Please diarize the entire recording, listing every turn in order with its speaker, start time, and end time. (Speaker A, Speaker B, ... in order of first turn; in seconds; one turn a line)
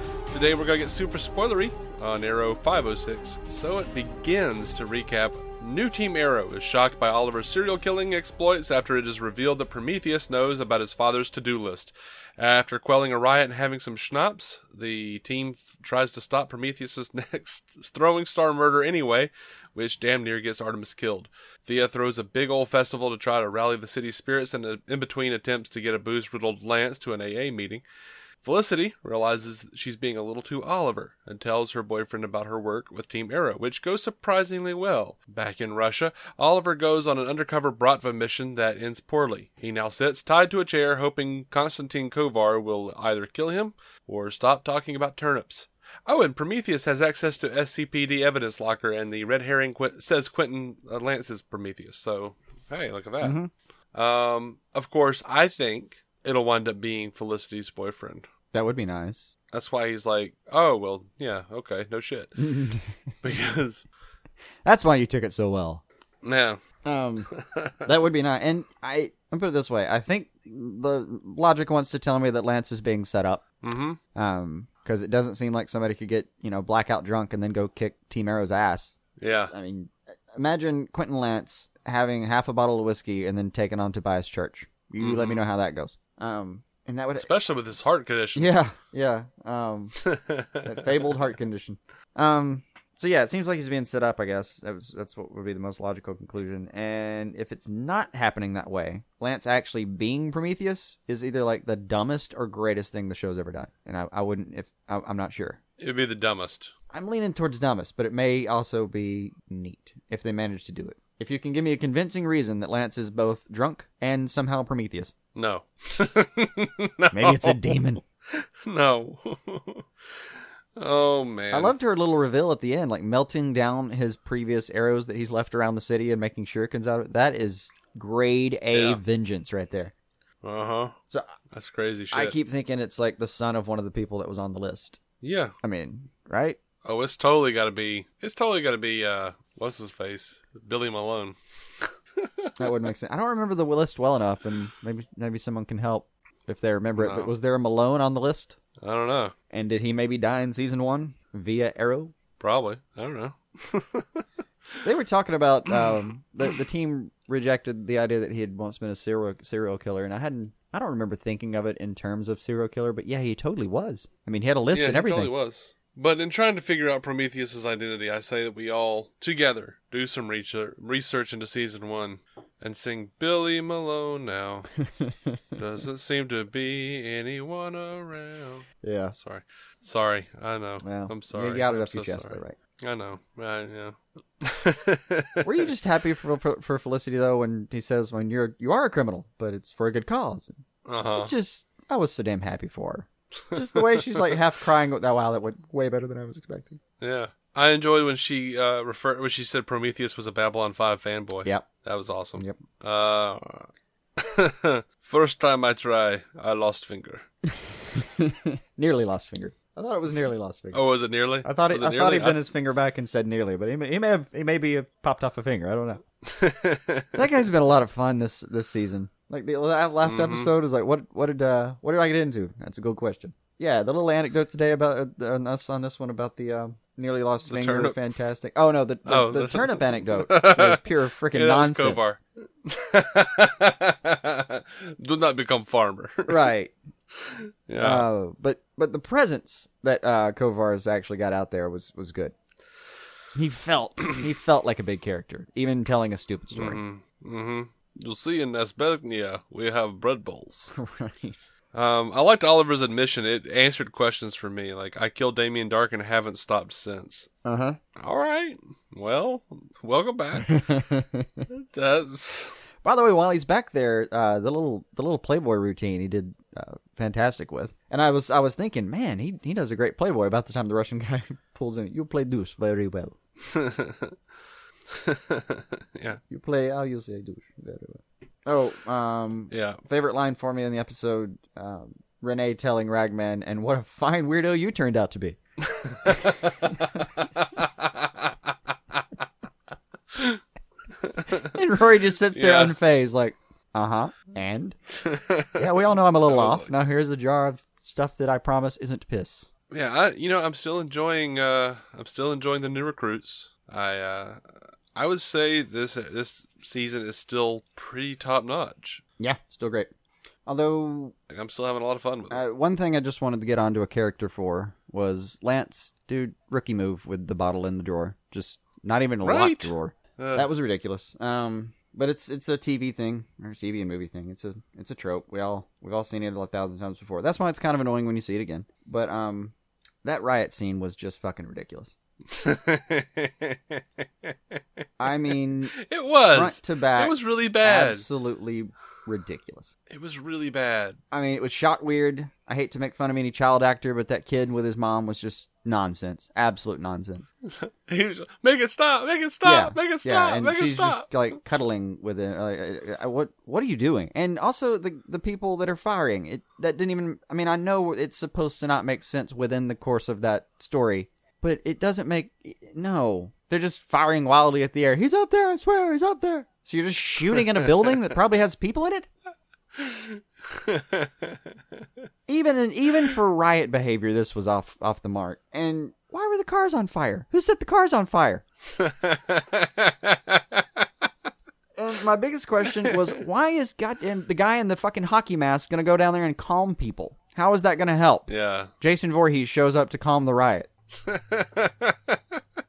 Speaker A: 0.3-27.8
Speaker A: 28.4-53.4
Speaker B: 53.2-53.5
Speaker A: 53.9-58.3
Speaker B: 58.5-59.3
Speaker A: 59.5-62.4
Speaker B: 62.4-63.0
Speaker A: 63.2-63.9
Speaker B: 64.6-65.8
Speaker A: 66.2-66.6
Speaker B: 66.8-67.3
Speaker B: 67.8-73.4
Speaker A: 73.6-74.0
Speaker B: 74.1-79.0
Speaker A: 79.2-79.5
Speaker B: 79.5-87.3
Speaker A: 85.0-85.4
Speaker A: 87.2-88.6
Speaker B: 88.3-90.0
Speaker A: 90.0-90.7
Speaker B: 90.6-105.6
Speaker A: 105.8-106.7
Speaker B: 106.9-115.1
Speaker A: 115.3-117.6
Speaker B: 117.1-118.0
Speaker A: 118.3-119.8
Speaker A: 120.8-121.8
Speaker B: 121.5-129.9
Speaker A: 128.7-129.0
Speaker A: 130.4-130.9
Speaker A: 131.5-132.3
Speaker B: 132.1-135.0
Speaker A: 135.2-135.5
Speaker B: 135.6-136.6
Speaker A: 136.8-141.3
Speaker A: 142.2-142.5
Speaker B: 142.6-148.6
Speaker A: 147.0-147.3
Speaker A: 148.8-149.3
Speaker B: 149.5-152.1
Speaker A: 152.4-154.2
Speaker B: 154.8-165.3
Speaker A: 155.7-155.9
Speaker A: 164.7-174.7
Speaker B: 174.8-175.6
Speaker A: 175.6-185.4
Speaker B: 178.8-179.2
Speaker B: 180.8-182.6
Speaker B: 185.4-190.6
Speaker A: 190.8-191.3
Speaker B: 191.2-196.8
Speaker A: 197.0-207.2
Speaker B: 207.6-210.8
Speaker A: 210.7-212.5
Speaker B: 211.4-216.0
Speaker A: 216.3-217.2
Speaker B: 217.2-232.0
Speaker A: 220.0-220.5
Speaker A: 227.5-228.0
Speaker A: 229.1-236.4
Speaker B: 236.3-236.7
Speaker A: 237.2-238.1
Speaker B: 237.8-242.3
Speaker B: 243.3-246.8
Speaker A: 246.5-250.7
Speaker B: 250.7-251.5
Speaker A: 251.7-257.3
Speaker B: 257.4-257.8
Speaker A: 257.9-260.7
Speaker B: 260.4-261.5
Speaker A: 261.5-262.6
Speaker B: 262.8-273.1
Speaker A: 273.5-274.1
Speaker A: 274.9-276.2
Speaker B: 276.3-285.4
Speaker A: 279.5-279.8
Speaker A: 285.8-286.5
Speaker A: 287.4-288.3
Speaker A: 290.1-290.4
Speaker A: 291.0-291.5
Speaker B: 291.4-294.8
Speaker A: 292.3-292.8
Speaker A: 295.1-295.6
Speaker B: 295.6-299.5
Speaker A: 296.2-296.7
Speaker A: 299.7-304.4
Speaker A: 304.9-309.0
Speaker B: 309.2-309.9
Speaker B: 310.4-311.1
Speaker A: 311.3-312.4
Speaker B: 312.3-331.9
Speaker A: 319.2-320.5
Speaker A: 332.3-334.3
Speaker B: 335.0-335.7
Speaker A: 335.9-338.1
Speaker B: 336.3-339.7
Speaker A: 339.9-341.0
Speaker B: 341.1-347.3
Speaker A: 347.5-351.6
Speaker B: 349.4-369.1
Speaker A: 369.8-371.4
Speaker B: 372.3-378.4
Speaker A: 378.7-380.8
Speaker B: 381.8-388.3
Speaker A: 388.3-388.7
Speaker B: 388.8-390.7
Speaker A: 391.1-392.4